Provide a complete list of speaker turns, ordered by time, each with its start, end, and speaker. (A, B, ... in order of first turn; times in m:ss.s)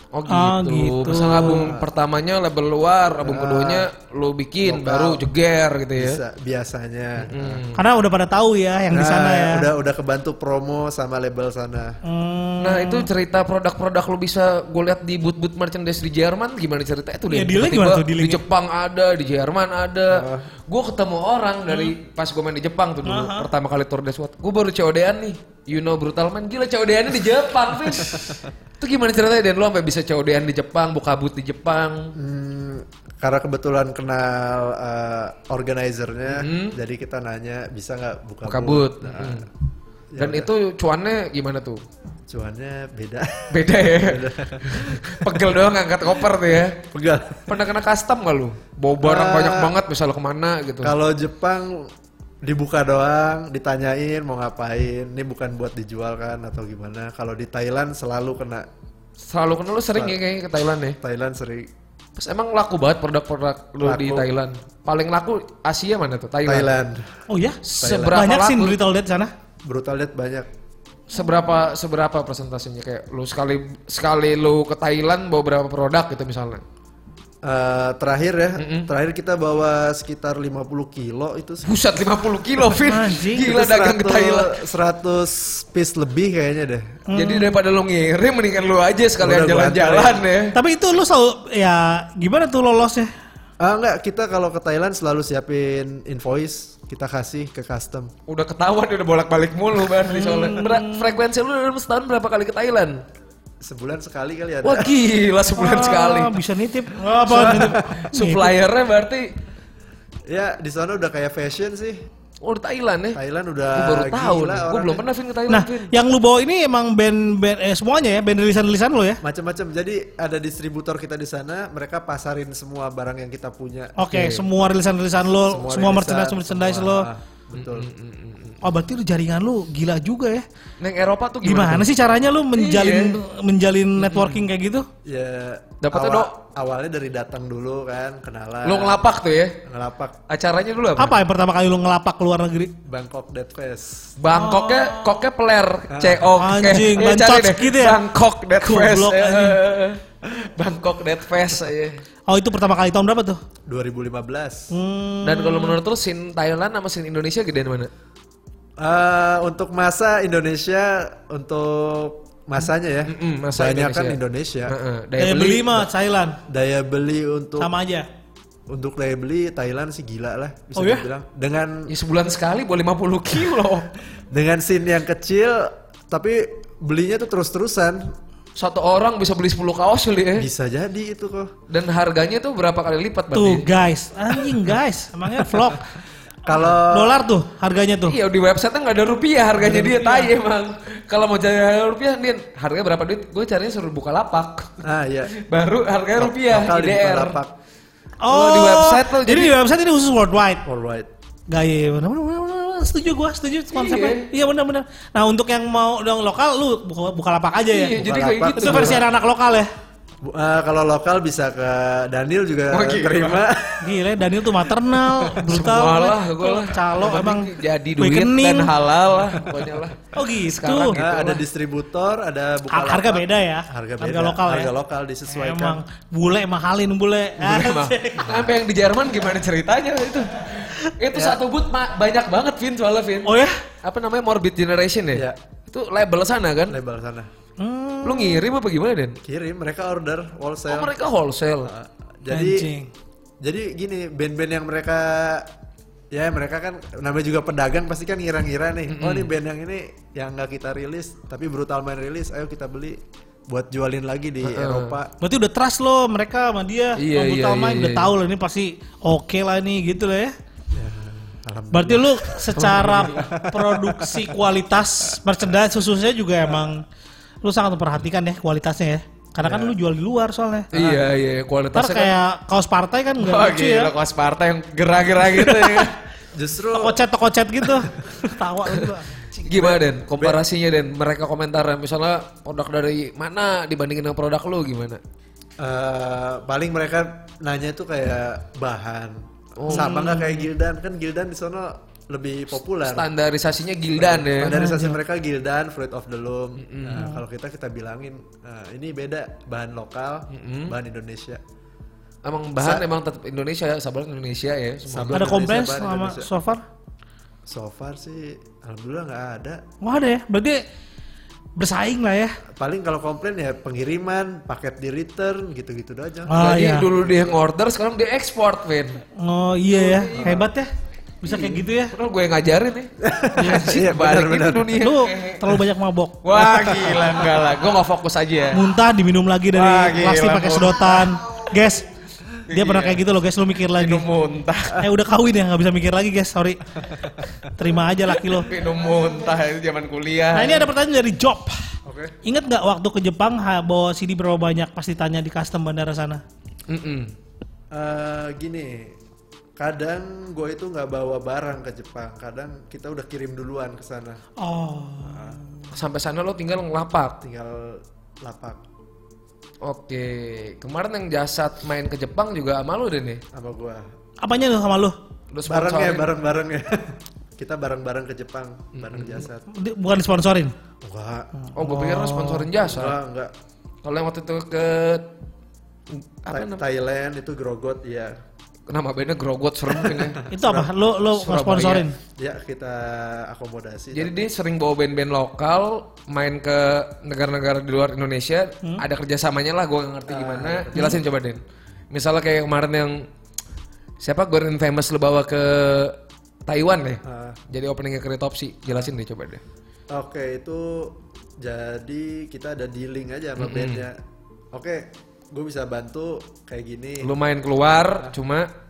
0:00.1-0:06.2 A
0:00.3-0:01.7 B
0:01.3-0:01.8 C
0:03.2-0:03.9 C
0:04.6-0:05.2 C
0:06.0-0:07.6 C
0:07.2-0:07.8 A
0:07.8-0:09.7 B
0:08.9-0:12.0 C
0:12.0-0:13.1 B
0:12.6-0:32.1 A
0:17.3-0:18.4 B
0:20.1-0:20.5 C
0:23.0-0:23.5 B
0:28.0-0:28.3 C
0:32.2-0:39.4 C
0:36.3-0:36.8 A
0:38.5-0:39.5 A
0:40.1-0:40.5 C
0:40.2-0:41.8 A
0:42.3-0:45.4 C
0:43.5-0:46.8 A
0:46.9-0:47.5 C
0:47.5-0:50.9 A
0:49.0-0:49.8 C
0:50.8-0:51.9 C
0:52.4-0:58.7 C
0:59.3-1:01.0 A
1:01.0-1:01.7 C
1:02.2-1:06.7 A
1:03.8-1:04.3 C
1:06.4-1:07.1 C
1:07.3-1:09.3 B
1:07.8-1:08.8 A
1:07.8-1:08.2 C
1:09.6-1:10.5 C
1:11.1-1:16.6 A
1:17.4-1:21.7 C
1:18.6-1:18.9 A
1:21.6-1:24.6 A
1:22.7-1:23.4 B
1:23.4-1:27.0 C
1:27.1-1:27.5 B
1:27.1-1:30.5 A
1:29.2-1:30.2 C
1:30.5-1:33.1 B
1:33.6-1:38.1 C
1:38.3-1:43.0 A
1:40.1-1:41.0 B
1:43.6-1:44.9 C
1:44.6-1:46.4 A
1:45.6-1:48.5 B
1:47.3-1:49.3 A
1:47.4-1:47.8 C
1:50.3-1:52.0 C
1:52.4-1:53.2 A
1:53.1-1:55.0 C
1:53.8-1:55.9 A
1:55.5-1:59.2 B
1:59.2-2:04.0 C
2:04.0-2:07.1 B
2:04.1-2:04.4 A
2:05.4-2:07.9 C
2:07.5-2:08.6 A
2:08.6-2:10.4 B
2:10.8-2:12.0 A
2:11.4-2:14.9 B
2:12.5-2:13.2 A
2:14.0-2:14.4 A
2:15.0-2:19.0 C
2:15.8-2:16.3 A
2:18.6-2:19.6 A
2:19.6-2:20.2 C
2:20.3-2:21.2 A
2:21.0-2:22.7 B
2:22.8-2:24.1 C
2:24.2-2:32.0 A
2:24.3-2:25.2 B
2:25.9-2:26.3 C
2:26.4-2:28.0 B
2:28.6-2:29.6 B
2:32.3-2:33.4 B
2:33.7-2:34.7 C
2:34.7-2:35.8 B
2:35.2-2:37.9 A
2:38.8-2:44.8 C
2:43.0-2:45.9 A
2:45.2-2:46.4 B
2:46.5-2:47.7 C
2:47.6-2:48.1 B
2:48.7-2:51.9 C
2:50.8-2:51.1 B
2:51.9-2:53.9 A
2:54.3-2:58.1 C
2:58.5-3:00.5 A
3:00.4-3:01.5 C
3:01.7-3:03.7 A
3:03.3-3:05.9 B
3:06.5-3:07.2 C
3:06.9-3:08.2 B
3:08.0-3:14.8 A
3:09.6-3:10.3 B
3:14.8-3:15.3 C
3:15.4-3:17.4 A
3:16.2-3:17.5 C
3:18.2-3:20.6 B
3:18.3-3:19.5 A
3:20.6-3:21.1 C
3:21.5-3:28.0 B
3:23.7-3:24.3 A
3:27.7-3:29.0 A
3:28.0-3:29.0 C
3:28.6-3:29.7 B
3:30.2-3:33.9 C
3:32.7-3:33.4 A
3:33.8-3:38.7 B
3:35.4-3:41.4 A
3:40.1-3:41.0 B
3:41.0-3:45.8 C
3:42.7-3:44.7 B
3:45.3-3:48.3 B
3:47.4-3:56.8 A
3:51.1-3:51.4 C
3:53.2-3:53.6 B
3:56.7-3:57.3 C
3:57.6-3:58.4 B
3:58.0-3:59.2 A
3:59.2-4:00.9 C
4:00.7-4:01.7 A
4:01.6-4:02.7 C
4:02.3-4:02.9 B
4:03.4-4:05.5 C
4:06.1-4:15.1 C
4:08.9-4:09.3 A
4:14.4-4:15.0 A
4:15.2-4:20.4 B
4:17.0-4:18.1 A
4:20.7-4:24.4 C
4:21.7-4:26.8 B
4:22.6-4:23.3 A
4:27.4-4:30.7 B
4:29.4-4:29.8 C
4:30.7-4:31.0 C
4:30.7-4:32.1 A
4:31.8-4:33.9 B
4:33.2-4:36.0 A
4:35.2-4:35.9 B
4:36.3-4:37.0 C
4:36.7-4:39.3 B
4:39.4-4:45.0 A
4:39.5-4:40.4 C
4:45.6-4:53.1 C
4:49.6-4:49.9 A
4:49.7-4:50.5 B
4:52.8-4:54.6 A
4:53.9-5:01.4 C
4:54.5-4:55.0 B
4:56.6-4:57.0 A
5:00.3-5:00.7 A
5:02.2-5:05.3 A
5:02.6-5:02.8 C
5:04.9-5:06.3 C
5:05.1-5:06.6 B
5:07.5-5:09.6 C
5:09.8-5:10.6 B
5:11.6-5:12.3 B
5:12.6-5:16.3 C
5:16.3-5:16.9 B
5:16.3-5:19.0 A
5:19.2-5:20.7 B
5:19.7-5:20.4 A
5:20.1-5:20.5 C
5:21.2-5:21.9 B
5:21.9-5:25.6 A
5:23.0-5:24.7 C
5:24.8-5:26.2 B
5:26.2-5:28.6 A
5:26.4-5:27.4 C
5:28.5-5:31.8 B
5:29.5-5:31.1 A
5:32.5-5:33.0 A
5:32.5-5:34.0 B
5:33.7-5:34.8 A
5:34.8-5:36.8 B
5:37.4-5:38.5 B
5:38.1-5:40.7 A
5:40.3-5:41.6 B
5:41.8-5:42.2 C
5:42.2-5:46.2 B
5:46.7-5:47.1 A
5:47.7-5:49.0 C
5:49.6-5:54.2 C
5:54.4-5:55.4 B
5:55.7-5:57.2 A
5:57.2-5:58.6 C
5:59.6-6:03.2 A
6:03.3-6:03.8 C
6:04.2-6:05.0 B
6:05.3-6:06.1 A
6:05.5-6:09.4 C
6:08.8-6:09.3 A
6:09.5-6:10.5 B
6:10.8-6:11.3 C
6:11.4-6:12.5 B
6:11.5-6:13.0 A
6:12.6-6:13.3 C
6:13.8-6:15.1 A
6:15.9-6:16.6 A
6:16.3-6:18.1 C
6:18.7-6:20.2 A
6:19.8-6:20.7 C
6:20.3-6:22.0 B
6:21.1-6:21.8 A
6:22.2-6:24.2 C
6:23.9-6:33.0 A
6:30.1-6:31.0 C
6:34.0-6:39.4 A
6:37.0-6:37.4 C
6:39.9-6:44.0 C
6:43.4-6:43.8 A
6:44.5-6:47.1 C
6:47.0-6:48.5 A